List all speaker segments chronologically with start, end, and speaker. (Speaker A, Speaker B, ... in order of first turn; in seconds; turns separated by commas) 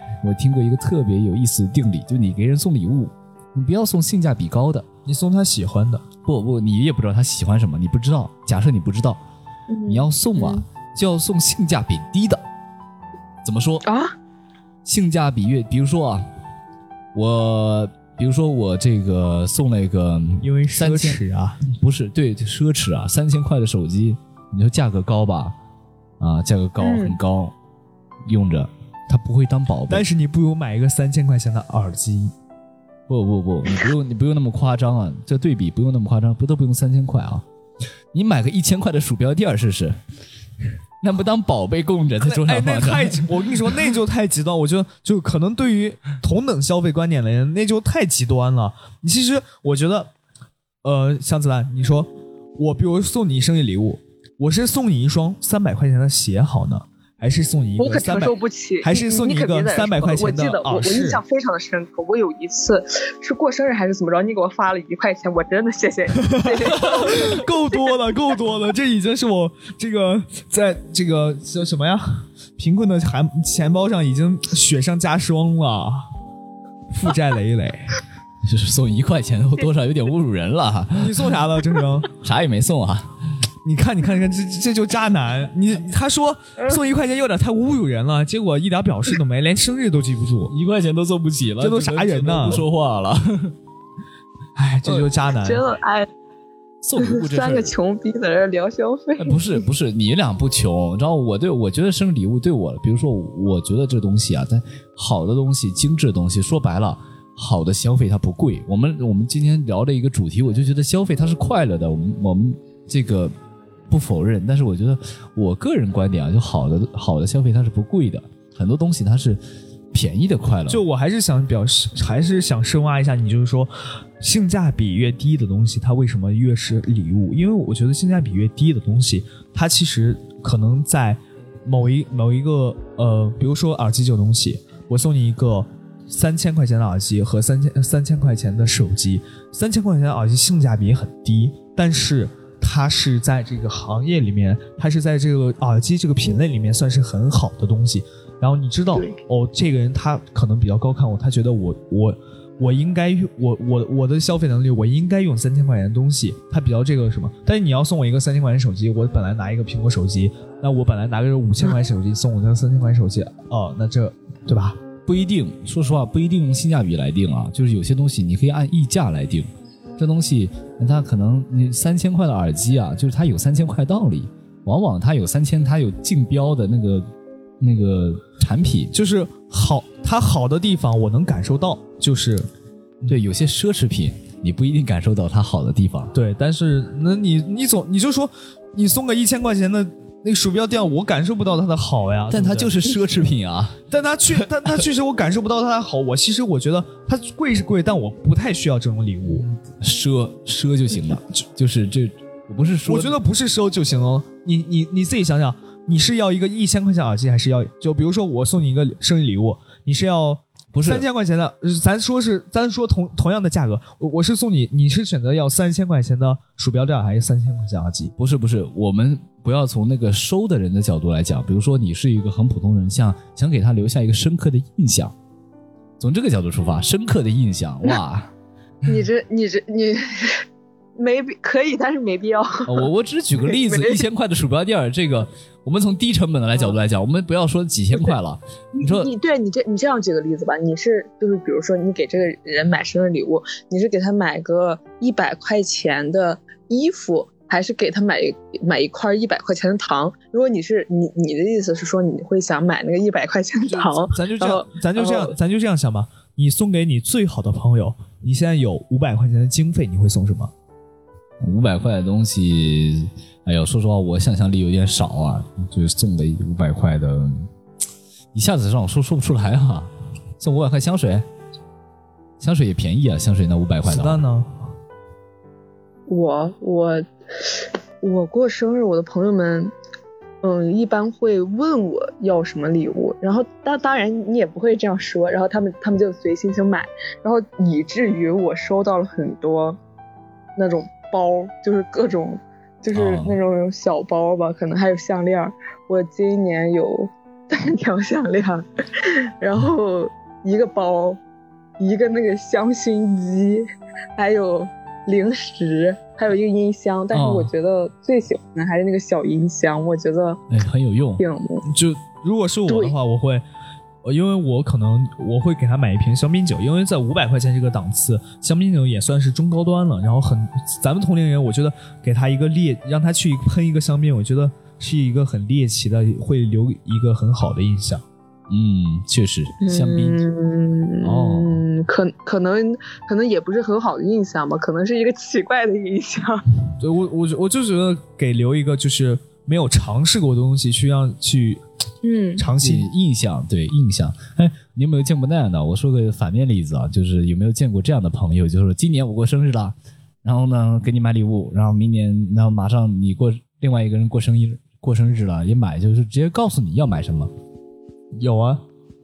Speaker A: 0.2-4.8, Speaker B: 5.0-6.0, Speaker A: 6.2-9.2, Speaker C: 9.7-10.6, Speaker A: 9.9-12.4, Speaker A: 13.4-13.8, Speaker C: 13.8-14.1, Speaker A: 14.8-16.2, Speaker A: 17.1-25.6, Speaker B: 20.4-21.6, Speaker A: 26.2-27.5, Speaker C: 26.8-27.2, Speaker A: 28.3-30.1, Speaker B: 29.9-32.3, Speaker A: 33.1-37.4, Speaker A: 38.1-40.0, Speaker A: 41.0-43.3, Speaker B: 42.2-50.1, Speaker B: 50.8-61.2, Speaker C: 57.8-67.5, Speaker B: 66.2-76.1, Speaker B: 76.9-78.0, Speaker A: 78.5-81.3, Speaker B: 81.0-82.1, Speaker A: 82.1-83.1, Speaker B: 83.6-90.5, Speaker A: 90.5-93.5, Speaker B: 91.6-92.6, Speaker B: 94.6-95.6, Speaker C: 94.9-96.1, Speaker A: 96.8-97.7, Speaker C: 97.0-99.6, Speaker A: 99.2-113.3, Speaker A: 113.9-119.4, Speaker A: 119.9-120.8, Speaker B: 120.7-164.8, Speaker A: 165.1-169.5, Speaker A: 170.0-177.1, Speaker A: 177.6-178.9, Speaker B: 178.9-182.5, Speaker A: 183.1-186.1, Speaker B: 186.1-192.9, Speaker A: 192.3-193.8, Speaker B: 193.9-199.4, Speaker A: 199.3-203.1, Speaker B: 202.9-218.1, Speaker A: 210.7-211.0, Speaker A: 218.2-225.1, Speaker A: 226.0-228.3, Speaker C: 228.9-230.4, Speaker C: 230.9-232.9, Speaker A: 232.6-239.1, Speaker C: 233.4-234.0, Speaker C: 238.7-255.3, Speaker B: 253.7-260.5, Speaker A: 261.4-267.5, Speaker A: 268.3-271.2, Speaker A: 272.4-274.2, Speaker B: 273.8-274.5, Speaker C: 276.1-279.7, Speaker C: 280.4-289.8, Speaker C: 290.6-301.2, Speaker A: 292.9-293.3, Speaker C: 301.8-310.4, Speaker A: 307.1-307.5, Speaker A: 310.5-311.2, Speaker C: 311.2-311.6, Speaker B: 311.6-313.4, Speaker C: 312.7-312.9, Speaker B: 314.0-328.0, Speaker A: 328.5-330.2, Speaker C: 329.6-336.4, Speaker A: 331.0-331.6, Speaker B: 336.8-341.6, Speaker C: 342.0-342.4, Speaker B: 342.4-342.9, Speaker A: 342.6-357.3, Speaker B: 358.2-358.6